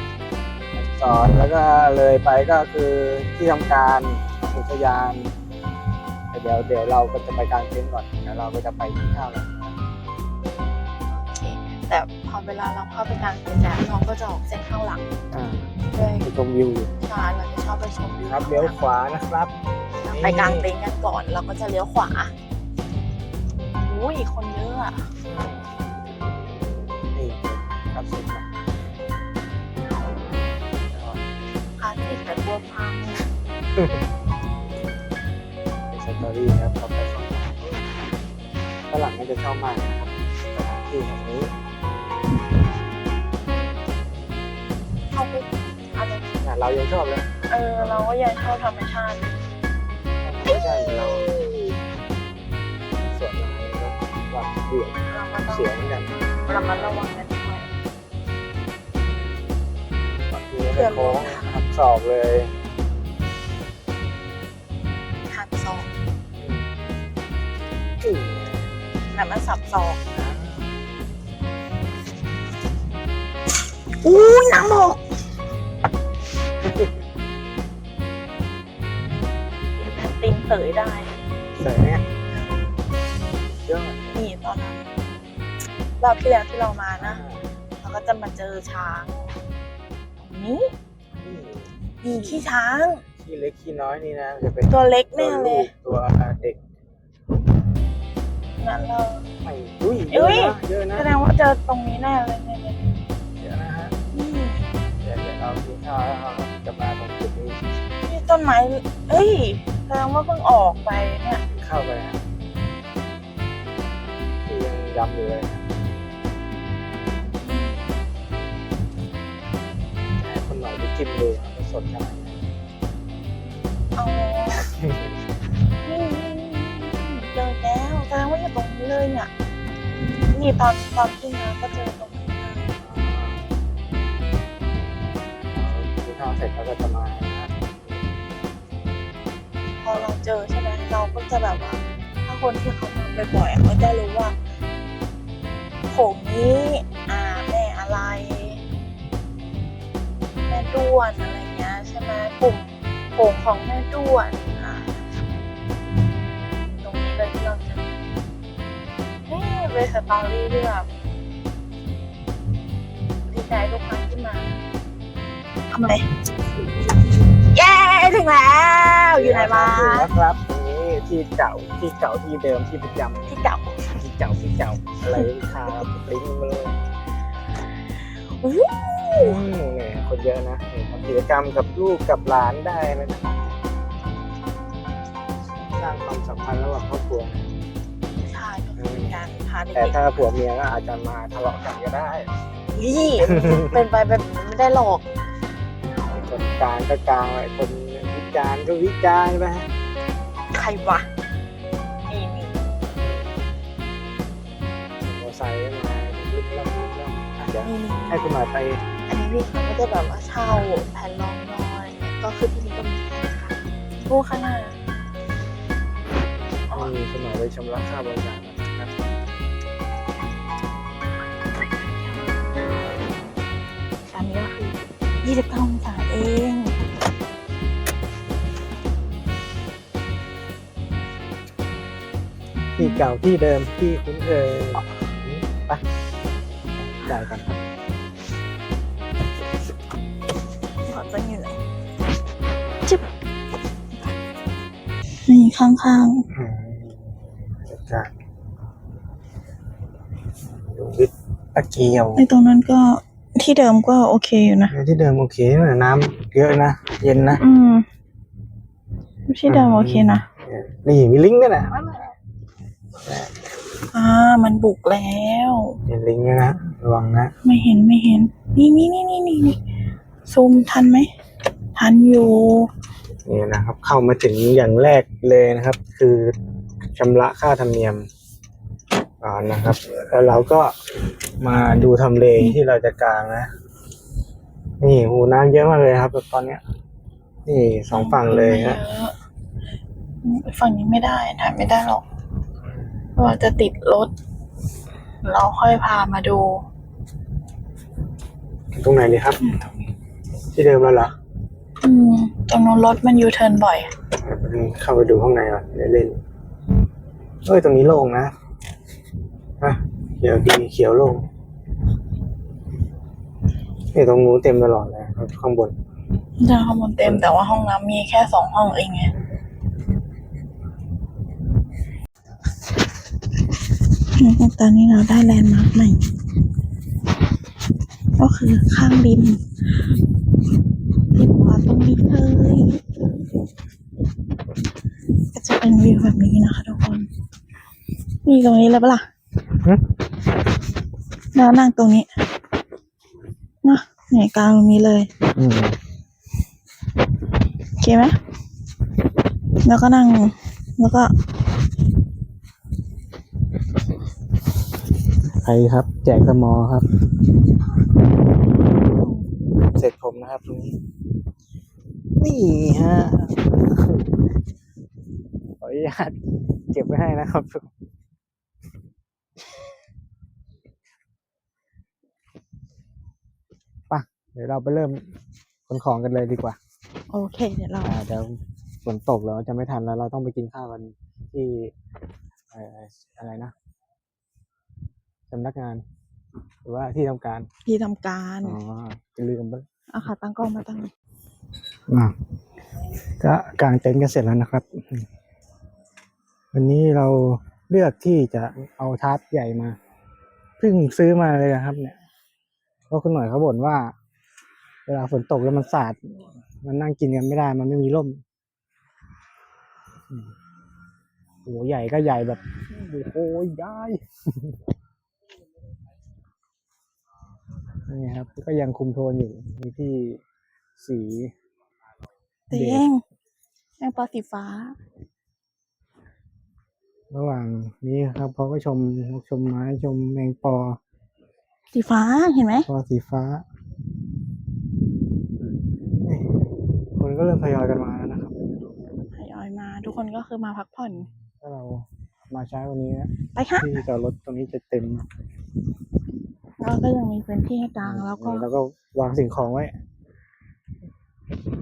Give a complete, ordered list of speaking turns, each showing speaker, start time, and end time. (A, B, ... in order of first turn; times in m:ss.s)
0:00.7-0:05.3 A
0:06.3-0:09.7 A
0:11.3-0:15.1 B
0:15.3-0:16.9 A
0:15.9-0:16.2 B
0:17.0-0:18.8 B
0:18.2-0:19.5 A
0:20.0-0:22.3 B
0:20.1-0:20.7 A
0:23.8-0:25.1 B
0:25.2-0:25.7 A
0:27.1-0:28.5 A
0:30.9-0:31.2 A
0:31.8-0:33.2 B
0:35.9-0:37.9 A
0:38.9-0:41.5 A
0:45.1-0:46.3 B
0:46.4-0:48.0 A
0:47.5-0:49.4 B
0:50.2-0:51.3 A
0:50.4-0:51.6 B
0:53.0-0:55.0 A
0:55.1-0:55.9 B
0:55.5-0:56.1 A
0:56.5-0:57.7 B
1:00.3-1:02.5 A
1:00.7-1:01.5 B
1:05.3-1:05.9 B
1:06.4-1:06.6 A
1:08.0-1:08.7 A
1:09.1-1:10.0 B
1:10.1-1:10.8 A
1:14.0-1:15.0 B
1:19.7-1:21.1 B
1:21.6-1:22.0 A
1:23.6-1:24.1 A
1:24.1-1:24.9 B
1:26.0-1:27.2 B
1:27.0-1:27.5 A
1:27.8-1:29.3 B
1:30.2-1:30.7 B
1:31.1-1:31.7 A
1:32.0-1:33.0 B
1:33.1-1:36.6 A
1:34.7-1:35.7 B
1:38.6-1:39.3 B
1:39.4-1:41.1 A
1:40.1-1:42.9 B
1:43.4-1:43.9 A
1:44.1-1:44.7 B
1:45.0-1:47.7 A
1:48.0-1:51.4 B
1:51.5-1:52.2 A
1:54.4-1:55.6 A
1:57.4-1:57.9 B
2:00.2-2:02.4 A
2:04.0-2:04.7 B
2:04.6-2:05.0 A
2:05.8-2:09.3 B
2:10.2-2:12.7 B
2:12.8-2:13.4 A
2:15.5-2:17.5 A
2:19.8-2:24.4 B
2:25.9-2:28.6 B
2:30.5-2:35.0 B
2:36.6-2:37.9 B
2:39.3-2:40.9 B
2:43.3-2:44.6 B
2:45.7-2:46.2 B
2:47.2-2:50.1 B
2:49.1-2:53.3 A
2:53.3-2:53.8 B
2:53.9-2:56.8 A
2:55.1-2:55.9 B
2:58.1-2:59.4 B
2:59.2-3:03.6 A
3:05.7-3:07.6 A
3:08.2-3:10.0 B
3:08.8-3:09.2 A
3:09.7-3:12.3 A
3:12.7-3:15.0 B
3:13.2-3:13.8 A
3:16.1-3:19.7 A
3:20.5-3:21.1 B
3:22.1-3:22.6 B
3:22.9-3:23.3 A
3:25.0-3:28.8 A
3:27.6-3:28.4 B
3:29.1-3:34.8 B
3:36.7-3:36.9 B
3:36.7-3:38.9 A
3:41.5-3:42.2 B
3:44.1-3:46.8 B
3:52.8-3:55.8 A
3:56.8-3:57.5 A
3:57.0-3:57.4 B
4:00.9-4:01.6 B
4:02.8-4:03.1 B
4:05.2-4:06.3 B
4:06.3-4:07.0 A
4:07.6-4:08.1 A
4:10.7-4:12.2 A
4:12.2-4:14.7 B
4:14.7-4:17.4 A
4:17.4-4:17.8 B
4:19.3-4:20.2 B
4:19.5-4:22.1 A
4:23.0-4:23.3 A
4:23.9-4:25.8 B
4:25.8-4:27.3 A
4:27.4-4:29.6 B
4:30.2-4:31.1 B
4:31.7-4:32.7 B
4:33.2-4:36.3 A
4:36.9-4:38.1 A
4:39.2-4:40.7 A
4:41.4-4:43.5 A
4:44.8-4:46.6 A
4:47.4-4:48.8 A
4:47.9-4:49.1 B
4:50.2-4:52.0 B
4:53.2-4:54.1 B
4:55.2-4:56.6 B
4:58.7-4:59.5 A
5:00.5-5:01.1 A
5:01.8-5:03.9 B
5:04.2-5:06.2 A
5:07.4-5:08.3 A
5:09.6-5:11.3 A
5:13.9-5:15.7 A
5:16.4-5:19.1 B
5:24.0-5:26.0 B
5:28.2-5:29.5 B
5:31.1-5:33.0 B
5:35.3-5:37.1 B
5:38.2-5:39.0 B
5:41.3-5:42.1 B
5:43.6-5:45.1 B
5:45.3-5:45.8 A
5:47.8-5:48.2 B
5:49.6-5:51.1 B
5:55.4-5:56.9 A
5:58.8-5:59.3 B
5:59.7-6:00.7 A
6:02.2-6:04.1 A
6:05.6-6:06.2 A
6:06.7-6:07.7 A
6:13.9-6:15.0 A
6:15.7-6:16.6 A
6:17.1-6:18.0 B
6:17.8-6:21.7 A
6:22.5-6:23.5 A
6:25.3-6:25.8 A
6:26.6-6:27.5 A
6:27.6-6:28.6 B
6:28.4-6:29.7 A
6:29.9-6:30.9 B
6:31.9-6:32.1 A
6:33.2-6:35.1 A
6:36.5-6:39.8 A
6:40.6-6:42.0 A
6:42.9-6:43.9 A
6:44.9-6:48.2 A
6:51.4-6:54.6 A
6:57.9-7:00.2 A
7:00.8-7:01.3 A
7:02.5-7:03.0 B
7:02.5-7:02.8 A
7:03.8-7:04.8 B
7:07.1-7:10.8 A
7:11.7-7:12.7 B
7:12.6-7:13.4 A
7:16.0-7:18.5 A
7:19.1-7:21.1 B
7:21.4-7:25.0 A
7:23.3-7:23.7 B
7:26.6-7:28.5 B
7:27.8-7:29.7 A